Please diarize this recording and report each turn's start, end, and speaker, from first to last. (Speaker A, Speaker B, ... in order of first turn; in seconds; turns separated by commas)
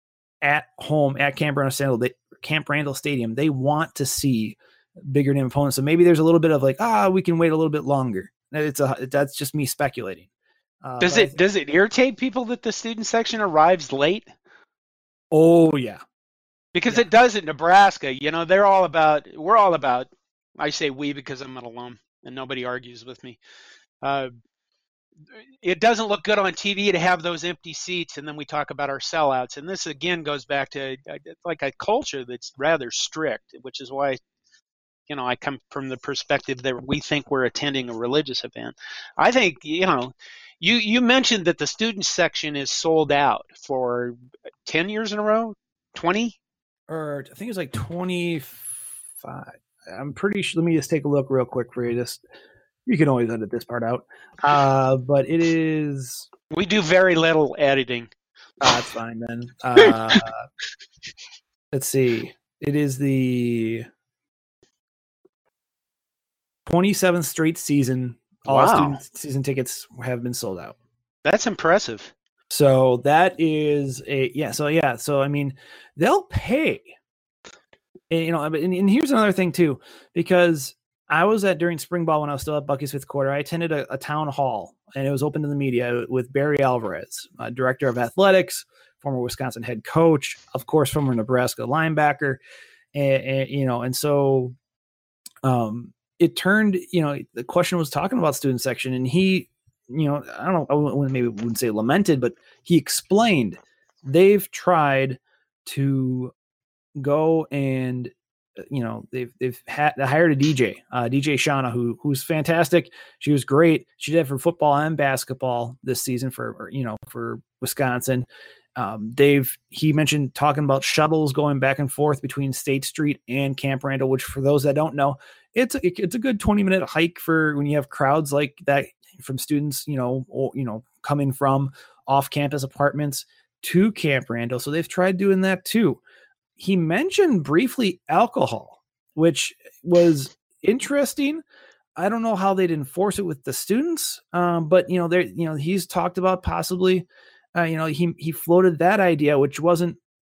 Speaker A: 0.4-10.3, Speaker A: 10.8-11.4, Speaker B: 11.0-14.3, Speaker A: 15.3-16.0, Speaker B: 16.7-23.4, Speaker B: 24.0-24.3, Speaker B: 25.6-34.2, Speaker B: 35.1-46.4, Speaker A: 46.9-52.2, Speaker A: 52.9-56.3, Speaker B: 56.5-58.1, Speaker A: 58.6-60.4, Speaker B: 59.8-60.2, Speaker A: 61.7-63.9, Speaker A: 66.7-70.8, Speaker B: 68.5-69.0, Speaker B: 71.2-72.1, Speaker A: 72.5-76.9, Speaker A: 78.1-92.4, Speaker A: 92.9-94.5, Speaker A: 95.4-106.3, Speaker A: 107.0-108.1, Speaker A: 108.7-136.0, Speaker A: 136.6-141.4, Speaker A: 142.0-150.0